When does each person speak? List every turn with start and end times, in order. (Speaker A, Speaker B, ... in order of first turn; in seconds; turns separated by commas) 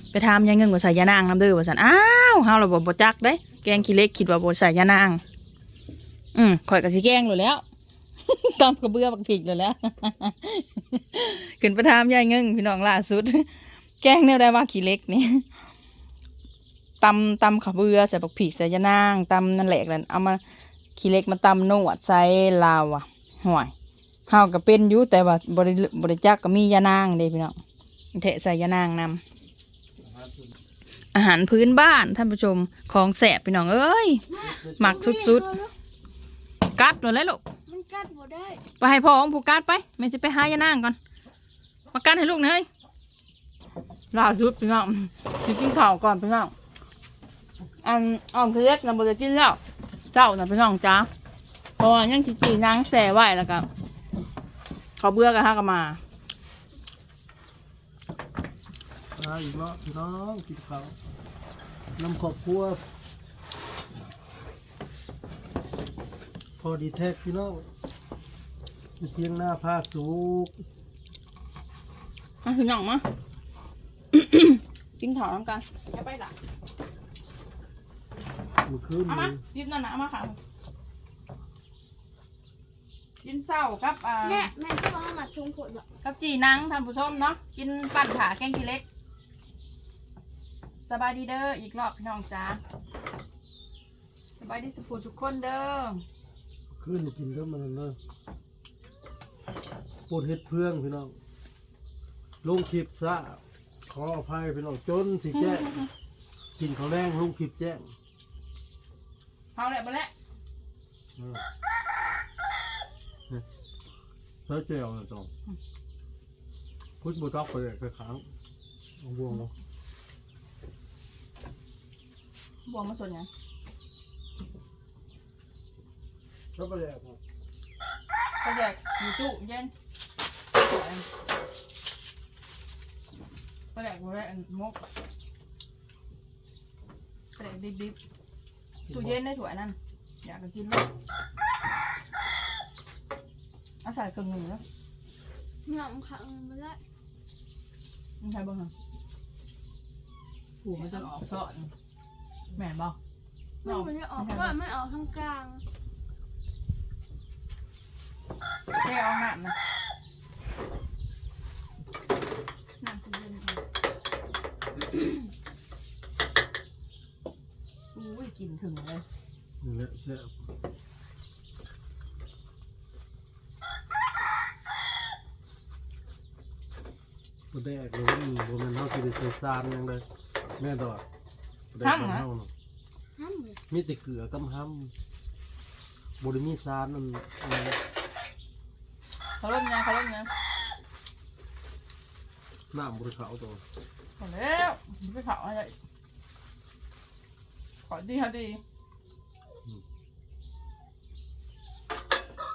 Speaker A: 0.1-5.2, Speaker A: 6.3-7.6, Speaker A: 8.2-13.5, Speaker A: 14.0-15.4, Speaker A: 17.0-20.4, Speaker A: 20.9-23.7, Speaker A: 24.3-27.6, Speaker A: 28.1-29.2, Speaker B: 30.0-30.5, Speaker A: 31.1-34.2, Speaker C: 34.3-35.7, Speaker B: 34.4-34.8, Speaker A: 34.8-35.5, Speaker A: 36.6-37.4, Speaker C: 37.7-38.6, Speaker A: 38.8-41.0, Speaker A: 41.9-42.7, Speaker A: 44.1-46.5, Speaker A: 47.8-49.6, Speaker A: 50.1-51.1, Speaker A: 51.8-53.7, Speaker A: 55.0-56.0, Speaker B: 59.1-61.0, Speaker B: 62.0-62.8, Speaker B: 66.6-67.7, Speaker B: 69.0-70.6, Speaker A: 72.4-73.0, Speaker A: 74.1-76.3, Speaker B: 78.6-79.4, Speaker A: 79.1-80.4, Speaker A: 83.2-84.5, Speaker C: 84.2-85.8, Speaker A: 86.0-88.8, Speaker A: 90.8-92.6, Speaker A: 94.4-96.0, Speaker B: 96.7-98.0, Speaker B: 100.1-101.2, Speaker B: 102.4-105.8, Speaker A: 105.3-105.9, Speaker B: 106.6-107.9, Speaker A: 109.5-110.1, Speaker B: 111.2-111.4, Speaker B: 114.5-115.3, Speaker B: 117.0-118.3, Speaker B: 119.0-119.5, Speaker A: 122.7-123.3, Speaker B: 126.5-127.2, Speaker A: 128.4-129.7, Speaker A: 130.5-131.0, Speaker A: 133.7-134.8, Speaker A: 137.3-138.0, Speaker A: 138.9-140.9, Speaker B: 138.9-139.2, Speaker A: 143.8-144.6, Speaker C: 145.6-146.8, Speaker A: 148.2-148.7, Speaker A: 150.6-151.7, Speaker A: 152.5-152.9, Speaker C: 153.6-155.6, Speaker A: 153.6-154.6, Speaker A: 158.7-159.5, Speaker A: 162.8-163.6, Speaker A: 167.9-169.0, Speaker B: 169.6-170.3, Speaker B: 177.5-180.0, Speaker B: 180.6-181.0, Speaker B: 181.7-182.5, Speaker A: 181.8-182.2, Speaker C: 183.2-183.6, Speaker B: 183.7-184.9, Speaker B: 186.2-187.8, Speaker A: 189.4-190.3, Speaker B: 192.7-193.6, Speaker A: 194.2-195.7, Speaker A: 197.9-198.6